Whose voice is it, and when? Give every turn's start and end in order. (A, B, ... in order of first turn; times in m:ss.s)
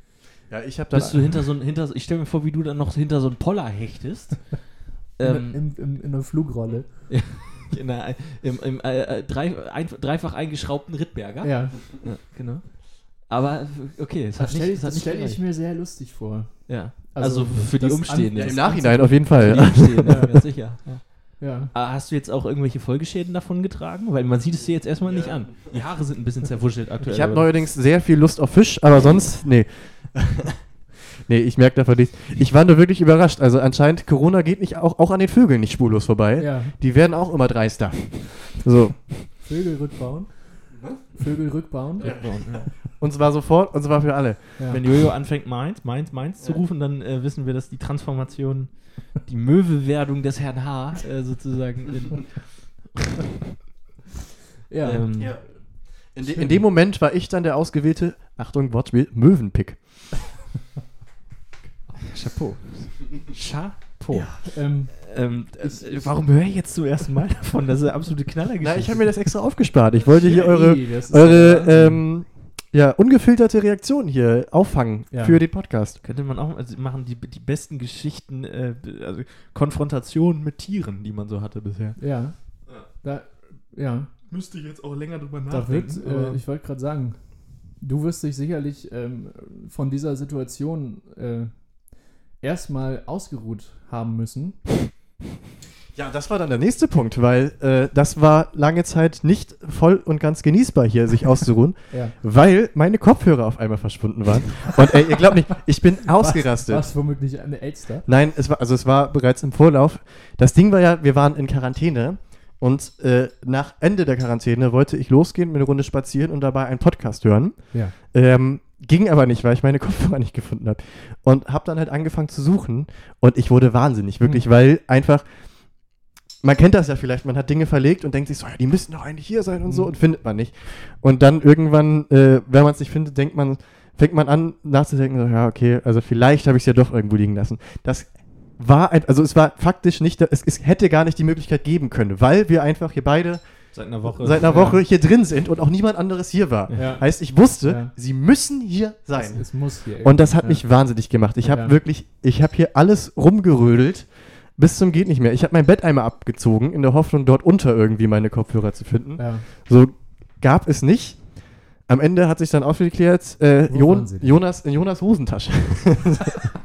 0:00.5-0:01.3 A
0:00.9-0:05.6 B
0:05.2-0:07.1 C
0:07.1-0:15.4 B
0:11.4-0:11.8 C
0:14.4-0:20.5 C
0:16.7-0:27.5 B
0:18.3-0:20.2 A
0:21.4-0:21.7 C
0:27.0-0:30.6 A
0:31.2-0:39.2 A
0:36.4-0:36.7 C
0:39.4-0:40.3 C
0:41.1-0:42.2 C
0:42.0-0:42.8 B
0:42.0-0:44.6 A
0:44.7-0:53.0 B
0:54.7-0:55.1 C
0:54.8-0:55.4 B
0:55.2-0:55.4 A
0:56.0-0:59.8 A
0:56.2-0:56.6 C
1:02.0-1:09.2 B
1:04.1-1:06.1 C
1:08.6-1:16.0 A
1:10.2-1:12.0 C
1:15.1-1:15.4 C
1:16.0-1:22.0 B
1:22.0-1:22.4 C
1:23.0-1:24.1 C
1:24.3-1:26.4 B
1:25.5-1:27.2 C
1:27.8-1:31.5 C
1:32.4-1:34.6 C
1:35.9-1:46.8 A
1:46.2-1:48.0 C
1:48.0-2:05.2 A
2:06.4-2:46.5 A
2:23.7-2:24.8 B
2:24.4-2:24.8 C
2:26.7-2:27.0 B
2:26.7-2:27.9 C
2:29.1-2:30.6 C
2:31.4-2:31.8 C
2:39.2-2:39.4 C
2:43.7-2:44.4 C